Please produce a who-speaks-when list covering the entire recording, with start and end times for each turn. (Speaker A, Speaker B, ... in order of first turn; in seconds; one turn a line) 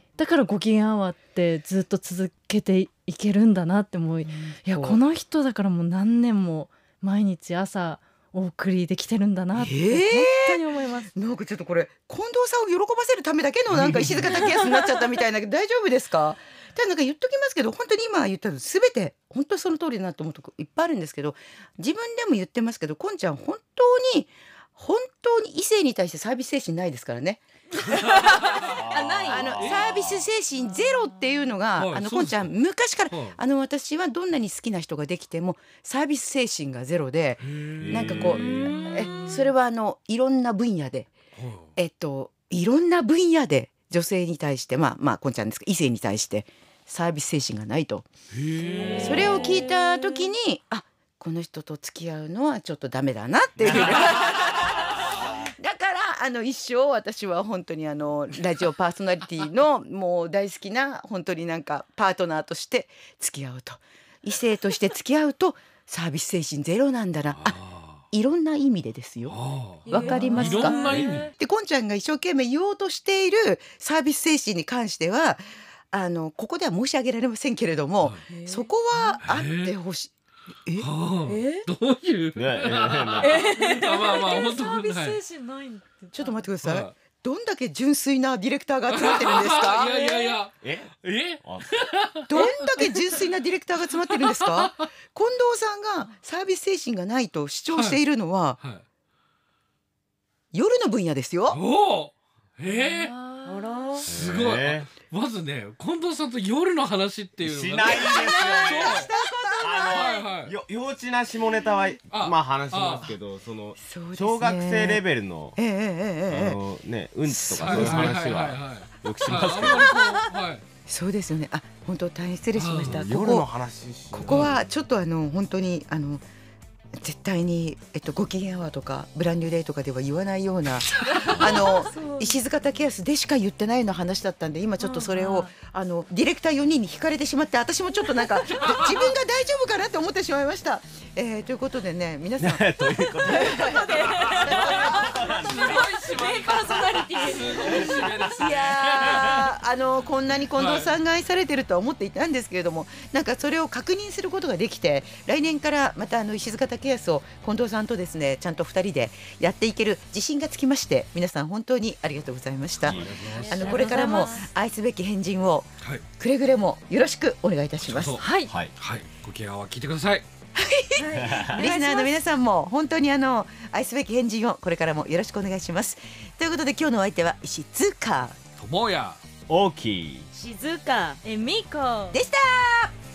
Speaker A: 0.2-11.1
Speaker B: 4.3-5.0
Speaker B: 9.6-28.4
Speaker C: 13.7-14.4
Speaker D: 14.3-14.9
Speaker C: 27.9-28.8
Speaker D: 28.2-29.6
Speaker E: 28.6-30.2
Speaker B: 29.2-41.1
Speaker C: 29.6-29.9
Speaker C: 31.8-32.5
Speaker C: 33.1-33.4
Speaker C: 37.4-38.7
Speaker E: 37.8-38.8
Speaker C: 41.4-41.7
Speaker B: 41.8-48.1
Speaker C: 48.3-49.5
Speaker D: 48.8-50.1
Speaker B: 49.0-67.6
Speaker E: 53.6-54.2
Speaker C: 53.7-54.0
Speaker C: 67.3-68.0
Speaker B: 68.1-69.3
Speaker C: 69.3-71.3
Speaker D: 69.9-71.3
Speaker B: 69.9-70.8
Speaker B: 71.4-80.1
Speaker D: 78.3-79.2
Speaker C: 79.2-79.7
Speaker C: 80.8-85.2
Speaker D: 81.3-81.7
Speaker E: 82.4-83.4
Speaker D: 83.2-84.3
Speaker A: 83.5-86.4
Speaker B: 86.1-89.9
Speaker C: 86.6-86.9
Speaker C: 88.9-93.2
Speaker D: 89.8-90.3
Speaker E: 90.6-91.9
Speaker B: 92.3-98.6
Speaker C: 94.0-94.9
Speaker C: 97.7-98.0
Speaker C: 98.6-98.8
Speaker B: 100.5-101.6
Speaker C: 101.5-103.1
Speaker A: 102.7-104.0
Speaker D: 103.5-104.1
Speaker E: 104.1-104.9
Speaker C: 104.1-109.1
Speaker E: 107.4-115.6
Speaker B: 107.9-110.0
Speaker C: 109.8-110.5
Speaker C: 112.1-113.2
Speaker B: 113.8-115.0
Speaker B: 115.6-116.6
Speaker E: 116.3-120.0
Speaker B: 117.3-118.3
Speaker C: 117.5-120.6
Speaker B: 120.9-123.5
Speaker C: 122.5-123.1
Speaker E: 122.8-124.6
Speaker B: 124.1-126.2
Speaker C: 124.2-124.5
Speaker B: 126.9-142.7
Speaker D: 131.1-132.4
Speaker A: 134.8-135.5
Speaker C: 138.6-139.0
Speaker E: 142.4-145.9
Speaker D: 143.2-148.1
Speaker B: 143.3-143.7
Speaker C: 144.2-149.6
Speaker B: 144.4-145.1
Speaker E: 146.7-148.3
Speaker B: 148.3-168.2
Speaker C: 150.6-150.9
Speaker C: 162.8-163.8
Speaker E: 162.8-163.2
Speaker D: 163.3-164.5
Speaker A: 163.6-164.5
Speaker C: 167.8-170.3
Speaker A: 168.2-168.5
Speaker E: 168.5-168.7
Speaker B: 170.6-178.4
Speaker D: 171.0-171.6
Speaker E: 171.2-171.6
Speaker A: 171.4-172.1
Speaker C: 178.6-179.2
Speaker E: 179.5-180.3
Speaker D: 180.3-181.2
Speaker A: 181.2-182.2
Speaker B: 182.1-182.9